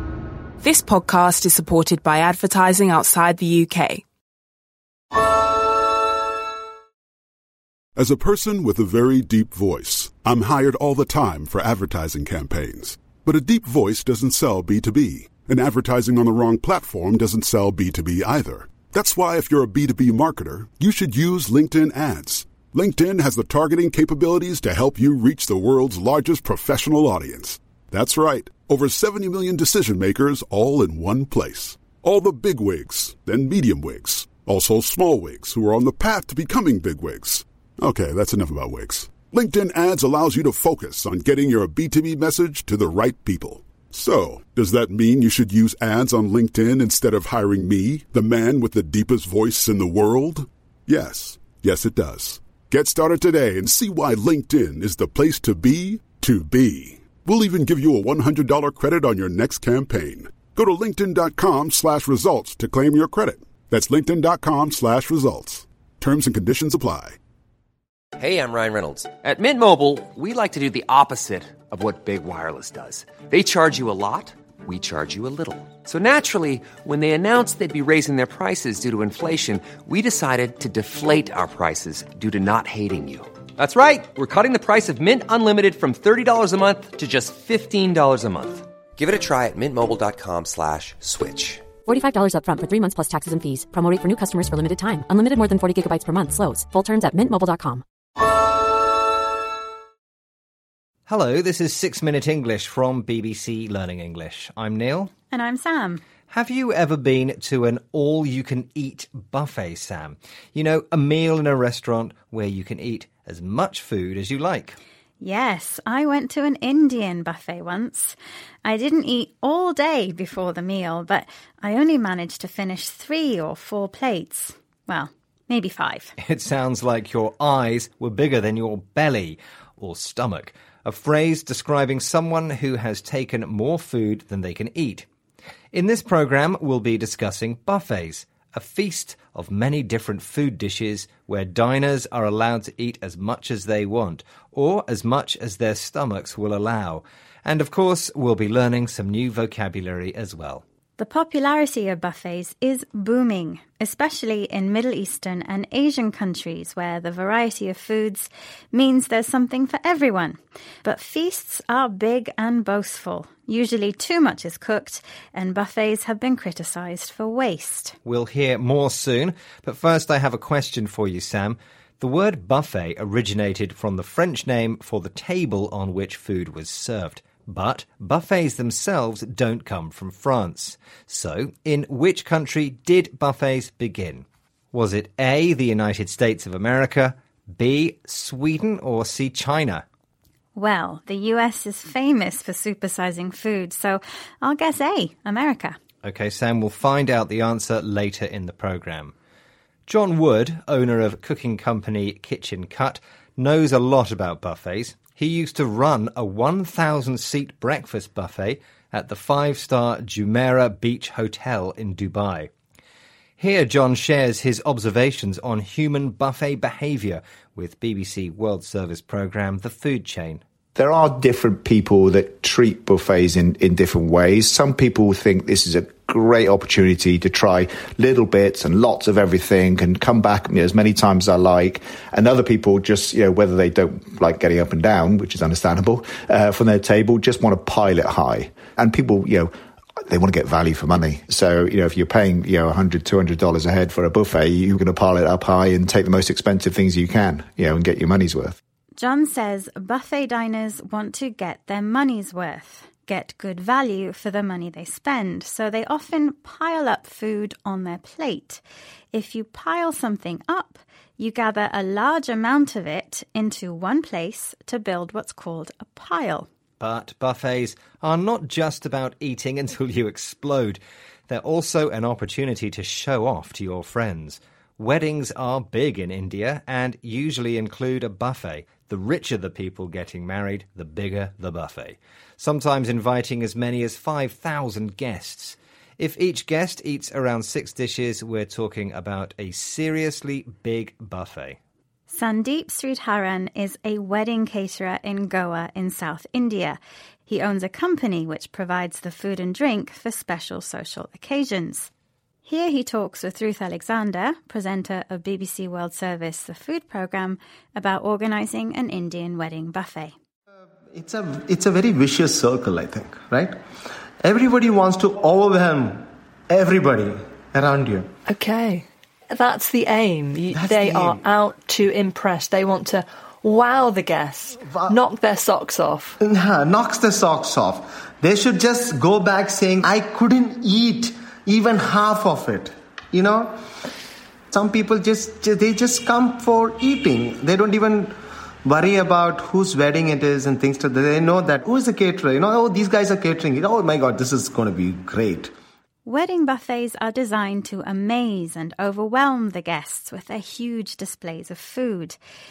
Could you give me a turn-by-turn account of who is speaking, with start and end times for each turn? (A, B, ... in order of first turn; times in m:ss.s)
0:00.6-0:04.0 A
0:08.0-1:07.2 B
1:08.2-1:31.7 C
1:31.8-1:37.8 D
1:41.1-1:45.1 E
1:45.3-1:46.0 F
1:46.3-1:54.8 E
1:55.2-2:06.1 F
2:06.2-2:15.0 E
2:15.7-2:30.6 E
2:31.0-2:48.0 F
2:48.0-3:09.8 E
3:10.5-3:15.8 F
3:16.0-3:19.1 E
3:19.9-3:32.5 E
3:33.4-3:40.4 E
3:40.7-3:59.5 G
4:00.1-4:08.6 G
4:09.0-4:26.5 F
4:26.8-4:51.6 E
4:52.1-5:01.9 F
5:02.4-5:10.1 F
5:10.9-5:13.6 H
5:14.2-5:18.1 H
5:18.3-5:26.1 I
5:26.2-5:33.5 H
5:34.5-5:45.5 H
5:46.0-5:52.2 F